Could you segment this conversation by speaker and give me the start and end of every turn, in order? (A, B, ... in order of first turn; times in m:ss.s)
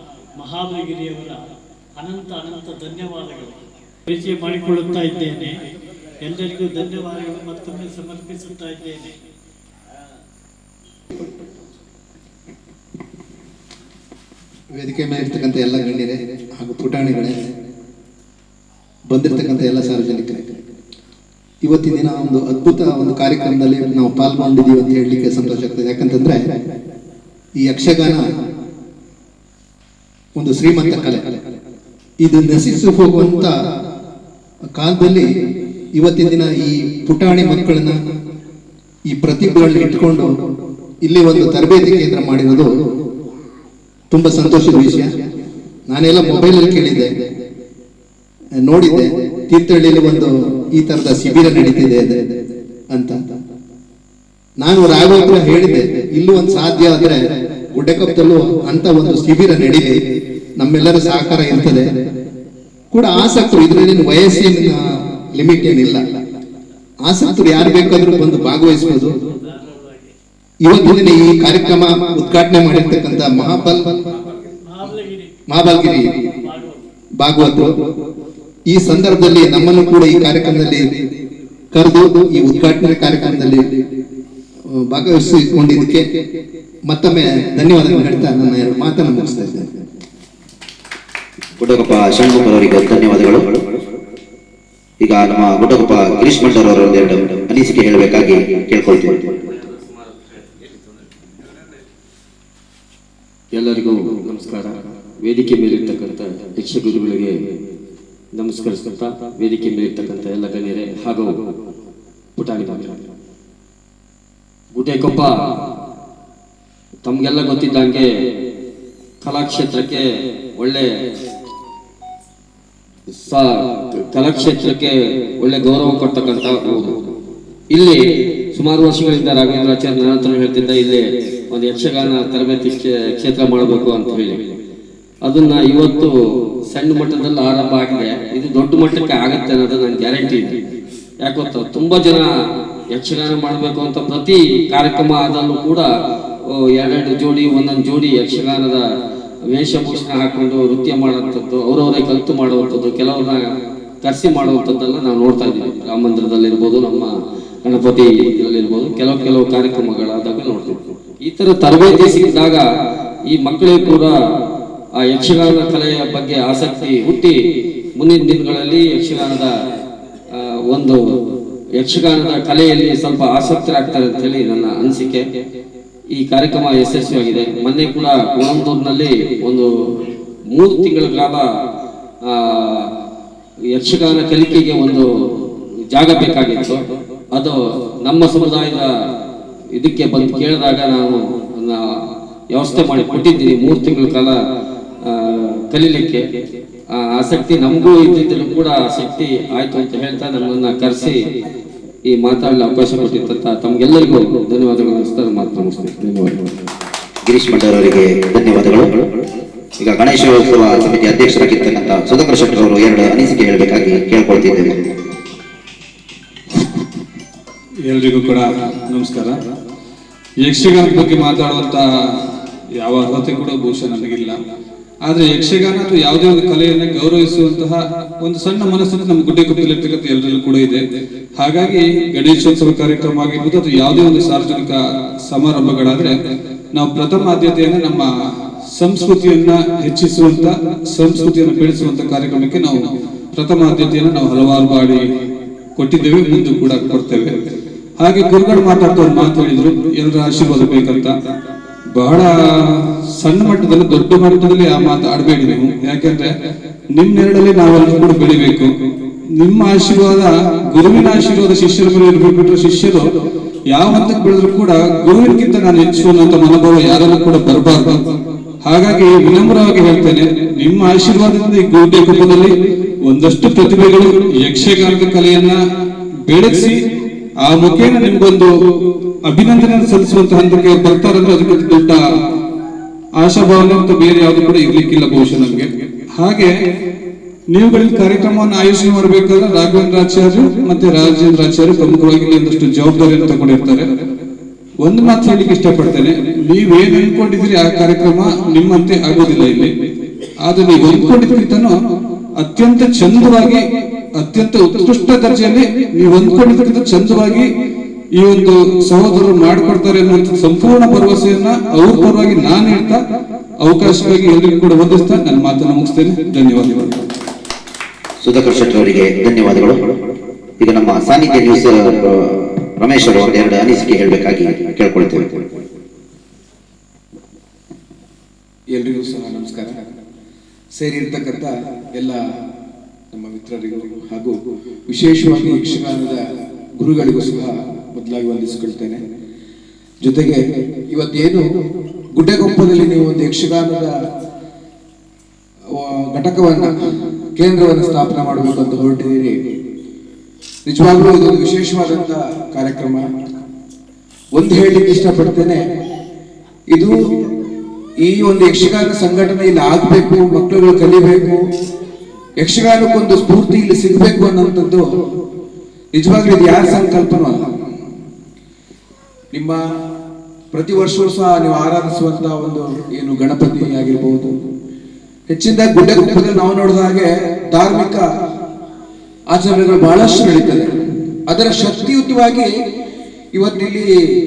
0:00.4-0:01.4 A
0:02.0-0:03.6 A
0:04.1-0:05.5 A
0:06.2-0:09.1 A
0:14.7-0:17.4 B
0:19.1-0:20.6 B
0:21.6-0:26.4 B
0:27.6-0:28.2 B
0:30.4-0:31.3 B
0:32.2-0:33.5 B
0:34.8-0:35.3 B
0:36.0-0:38.0 B
0:39.1-0:40.3 B
0:41.0-0:42.7 B
0:44.1-0:45.1 B
0:45.9-0:47.1 B
0:48.6-0:52.2 B
0:52.9-0:53.2 B
0:54.6-0:57.2 B
0:57.7-1:00.0 B
1:00.6-1:01.8 B
1:02.9-1:04.8 B
1:05.4-1:06.0 B
1:07.0-1:09.2 B
1:09.4-1:10.1 A
1:10.6-1:13.8 B
1:14.6-1:15.4 A
1:15.5-1:16.2 B
1:16.4-1:16.8 A
1:17.2-1:17.7 B
1:18.7-1:20.9 B
1:21.7-1:23.6 B
1:24.7-1:26.1 B
1:26.9-1:29.7 B
1:31.6-1:33.5 C
1:35.0-1:39.3 C
1:43.5-1:47.4 D
1:48.3-1:51.4 D
1:52.4-1:53.0 D
1:54.7-1:55.4 D
1:57.0-1:58.1 D
1:59.2-2:00.9 D
2:03.2-2:07.0 D
2:07.7-2:14.4 D
2:15.2-2:16.1 D
2:16.7-2:20.6 D
2:21.2-2:22.3 D
2:22.9-2:25.9 D
2:26.5-2:28.8 D
2:29.5-2:33.5 D
2:34.0-2:37.1 D
2:37.6-2:42.6 D
2:43.3-2:44.1 D
2:45.0-2:47.4 D
2:48.0-2:49.5 D
2:50.3-2:51.0 D
2:51.8-2:55.2 D
2:56.2-2:59.7 D
3:00.5-3:01.5 D
3:02.2-3:02.9 D
3:03.7-3:05.1 D
3:05.9-3:06.8 D
3:07.4-3:08.9 D
3:09.8-3:14.4 D
3:15.0-3:16.3 D
3:17.0-3:21.2 D
3:22.1-3:26.4 D
3:27.3-3:29.0 C
3:29.8-3:34.8 C
3:37.9-3:39.4 E
3:40.4-3:41.8 E
3:42.8-3:44.4 E
3:45.1-3:50.8 E
3:51.4-3:54.8 E
3:55.3-3:56.1 E
3:56.7-3:58.1 E
3:58.8-4:05.0 E
4:05.8-4:07.3 E
4:08.0-4:11.1 E
4:12.0-4:16.3 E
4:17.0-4:18.7 E
4:19.4-4:23.0 E
4:23.7-4:28.0 E
4:28.6-4:32.5 E
4:33.1-4:35.6 E
4:36.3-4:36.8 E
4:37.4-4:38.5 E
4:39.3-4:42.0 E
4:43.2-4:46.5 E
4:47.5-4:53.8 E
4:54.8-4:59.7 E
5:00.4-5:01.7 E
5:02.4-5:03.6 E
5:04.2-5:07.5 E
5:08.2-5:13.0 E
5:13.6-5:17.0 E
5:18.2-5:19.8 C
5:20.6-5:25.4 C
5:28.7-5:29.7 F
5:30.8-5:32.2 F
5:33.1-5:34.4 F
5:34.9-5:36.2 F
5:36.8-5:39.0 F
5:40.0-5:41.5 F
5:42.2-5:43.9 F
5:45.8-5:46.7 F
5:47.4-5:49.4 F
5:50.7-5:53.0 F
5:54.4-5:55.6 F
5:58.0-6:01.4 F
6:02.4-6:04.8 F
6:05.9-6:07.5 F
6:09.3-6:09.6 F
6:10.5-6:14.3 F
6:15.3-6:18.0 F
6:19.3-6:20.7 F
6:21.3-6:22.5 F
6:23.4-6:23.9 F